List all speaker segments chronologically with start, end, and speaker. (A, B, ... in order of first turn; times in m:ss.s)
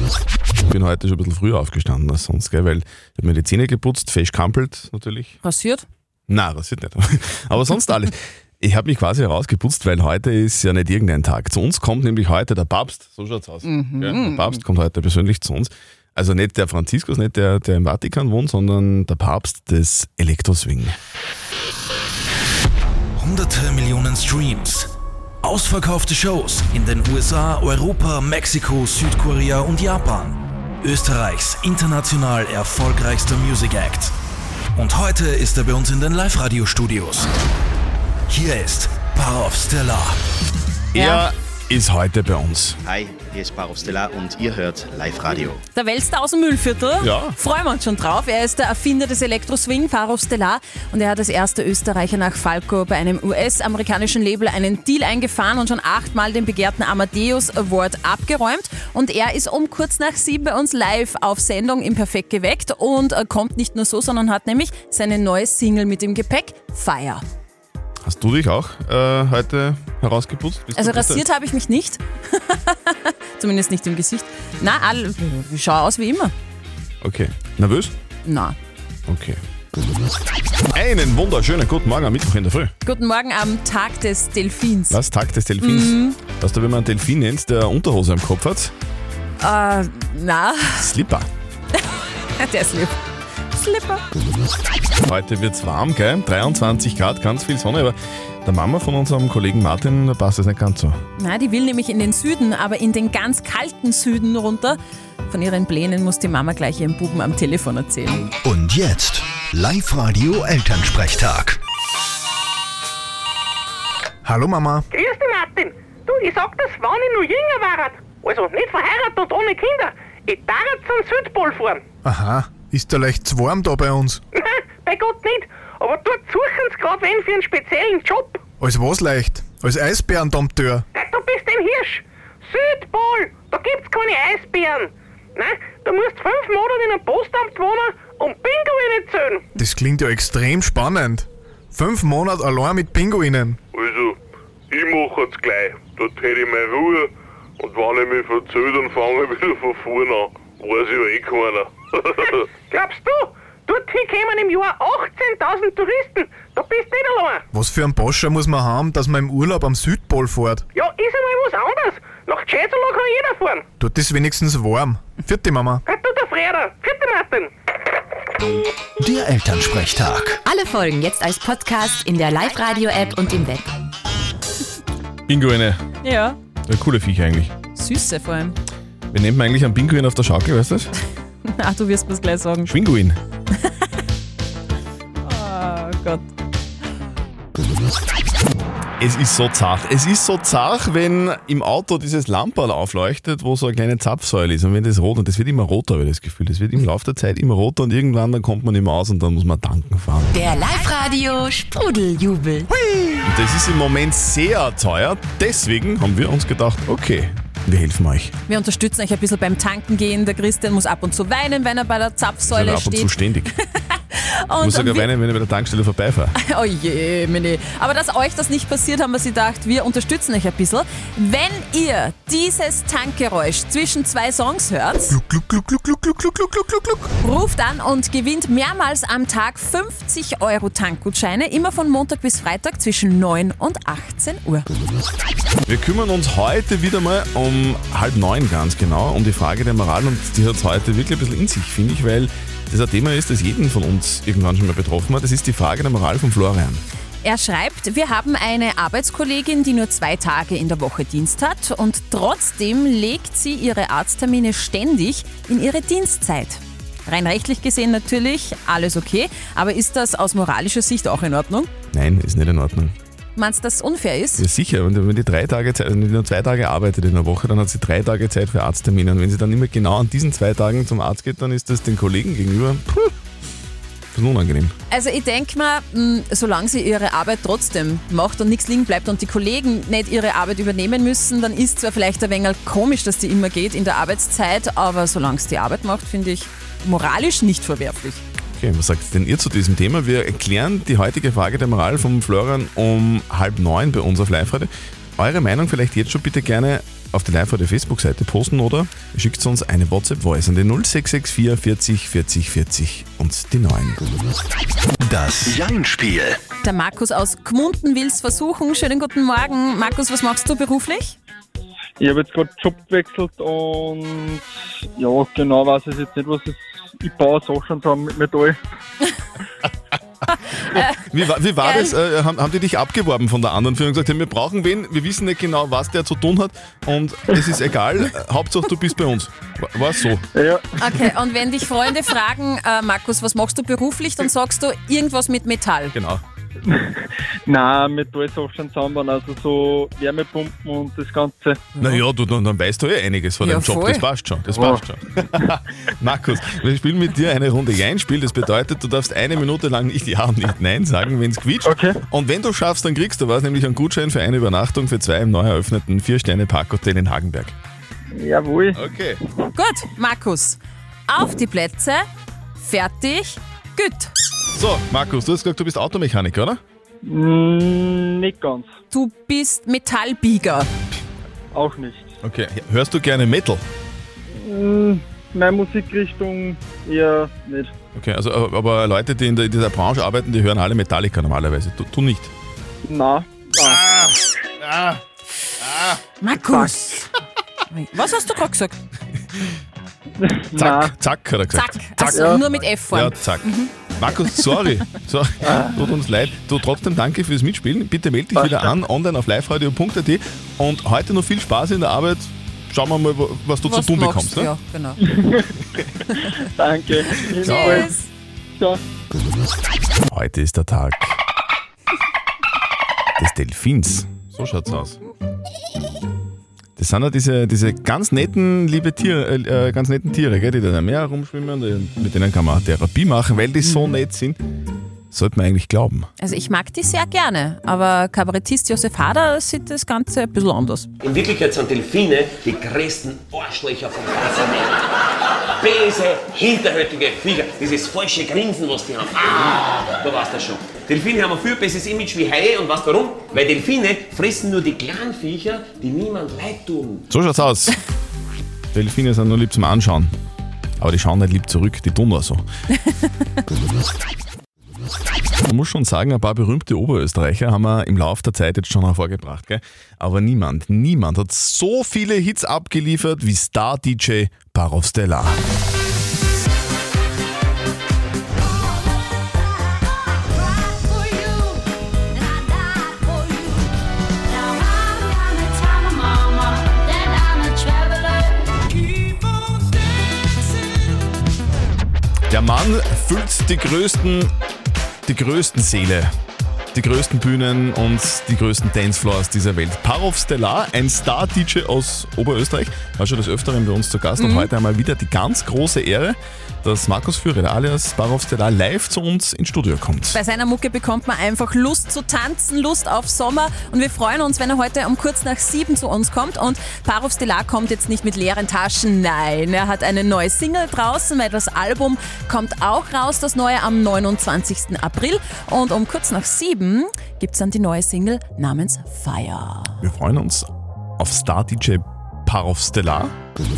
0:00.7-0:05.4 A
0:05.4-0:05.9 B
0:06.3-0:21.0 A
0:13.6-0:14.6 B
0:23.2-0:24.9 C
0:25.4-0:34.1 C
0:34.8-0:37.3 C
0:38.3-0:40.2 C
0:40.9-0:42.8 A
0:41.0-0:41.3 B
0:42.8-0:45.6 D
0:45.7-1:07.2 B
0:47.0-0:47.4 A
1:08.0-1:11.2 A
1:10.8-1:16.3 B
1:17.0-1:17.9 A
1:18.2-1:18.6 B
1:19.1-1:19.4 A
1:20.7-1:22.7 A
1:22.8-1:25.0 B
1:24.9-1:28.7 A
1:25.6-1:26.2 B
1:29.4-1:30.9 B
1:30.8-1:31.3 A
1:32.4-1:33.0 B
1:33.5-1:34.0 B
1:35.0-1:41.0 A
1:41.2-1:48.3 B
1:48.4-1:51.6 E
1:54.2-1:54.8 F
1:54.9-2:01.8 G
2:02.0-2:04.2 F
2:04.3-2:08.4 G
2:08.6-2:10.8 F
2:10.9-2:19.4 G
2:19.6-2:23.6 F
2:23.7-2:24.2 H
2:24.7-2:32.4 H
2:32.7-2:37.5 G
2:37.5-2:40.6 F
2:40.8-2:43.7 G
2:43.8-2:45.8 F
2:45.9-2:47.5 G
2:49.0-2:50.4 E
2:50.4-2:53.7 I
2:55.3-2:55.8 A
2:56.0-2:56.4 B
2:56.7-2:57.5 A
2:57.8-2:58.6 B
2:59.1-3:00.9 A
3:01.5-3:02.7 B
3:02.7-3:03.2 A
3:05.2-3:06.3 B
3:09.0-3:20.3 A
3:20.3-3:22.7 I
3:23.0-3:28.3 A
3:28.5-3:35.1 B
3:32.5-3:33.5 A
3:34.6-3:36.4 A
3:36.4-3:45.2 B
3:45.1-3:47.0 F
3:47.2-3:54.7 B
3:55.7-4:06.8 A
4:07.2-4:21.7 B
4:21.9-4:23.0 A
4:23.4-4:24.5 B
4:24.4-4:33.1 A
4:34.1-4:34.7 A
4:34.9-4:48.2 B
4:48.6-5:04.0 A
5:05.0-5:06.4 E
5:06.6-5:11.2 B
5:12.0-5:18.6 J
5:20.7-5:21.0 B
5:20.7-5:30.2 A
5:21.6-5:21.9 B
5:30.4-5:30.8 J
5:30.8-5:36.0 B
5:35.9-5:36.2 A
5:36.7-5:41.8 J
5:41.8-5:57.6 A
5:43.4-5:44.1 B
5:44.5-5:44.8 J
5:51.6-5:52.0 J
5:58.1-5:58.8 J
5:58.8-5:59.2 A
5:59.5-6:02.1 B
6:02.6-6:04.1 B
6:04.5-6:06.6 A
6:07.0-6:08.7 J
6:08.9-6:10.7 B
6:11.5-6:12.2 J
6:12.2-6:13.6 A
6:14.3-6:17.7 J
6:18.0-6:22.3 A
6:22.9-6:24.1 J
6:24.6-6:25.0 A
6:26.2-6:27.2 B
6:27.7-6:28.8 B
6:30.2-6:31.0 J
6:30.6-6:32.4 A
6:31.5-6:33.7 B
6:32.1-6:32.4 J
6:32.9-6:44.5 A
6:35.4-6:35.9 J
6:38.4-6:38.8 J
6:43.6-6:45.0 B
6:45.0-6:45.5 J
6:46.2-6:47.9 J
6:47.4-6:48.1 B
6:50.1-6:51.2 A
6:53.2-6:55.0 A
6:56.8-7:04.4 A
7:03.6-7:03.9 B
7:05.1-7:06.1 A
7:06.2-7:10.9 B
7:11.0-7:14.9 K
7:15.5-7:27.1 K
7:27.1-7:27.8 A
7:28.7-7:30.2 A
7:30.8-7:32.4 A
7:35.4-7:45.4 A
7:57.4-7:57.7 B
8:02.3-8:04.3 A
8:05.1-8:06.1 A
8:06.7-8:20.2 A
8:14.2-8:14.5 B
8:20.1-8:39.8 B
8:39.8-8:40.5 A
8:41.0-8:43.1 A